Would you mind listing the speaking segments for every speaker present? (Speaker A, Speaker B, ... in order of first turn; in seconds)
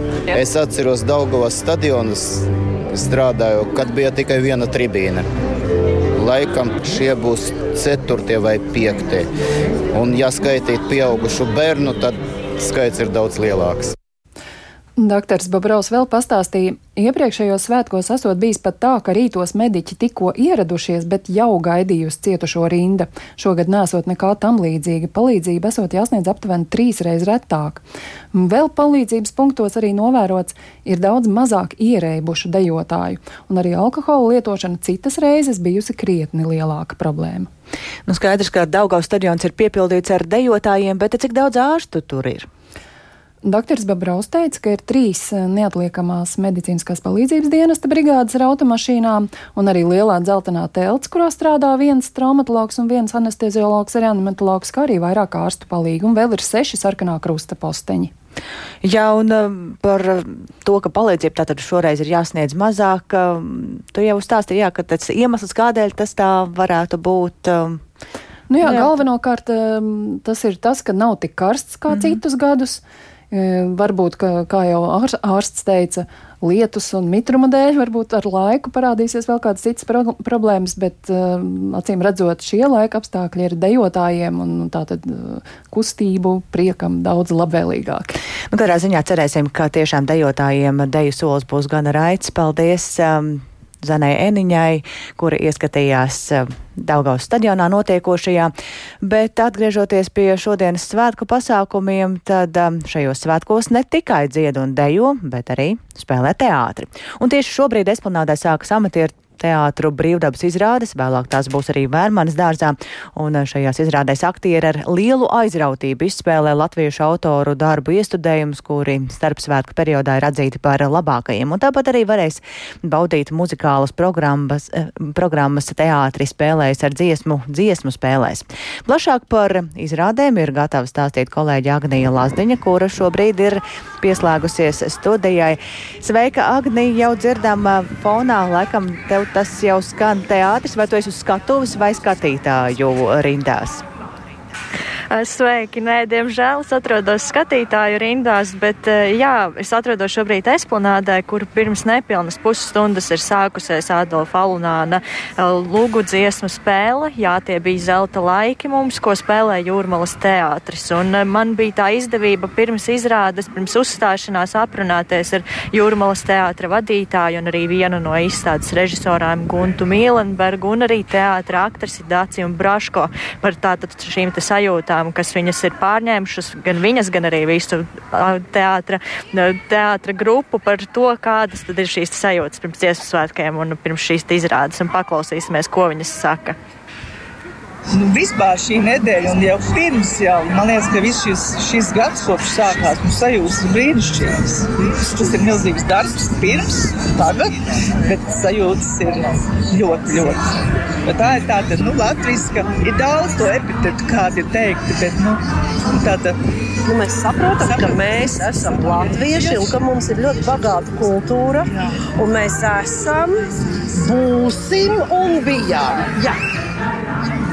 Speaker A: 0.3-5.2, 6.2-9.3, 9.9-13.9
Speaker B: 15.0-27.8, 28.3-37.5, 43.4-58.1, 68.5-88.2
Speaker C: 38.1-42.5, 58.8-67.8, 68.6-68.9, 88.5-143.8
Speaker D: 145.1-186.6
Speaker E: 187.9-200.4, 201.1-205.4, 205.9-206.3, 207.6-209.7
Speaker F: 206.8-211.7, 212.2-213.4, 214.0-216.3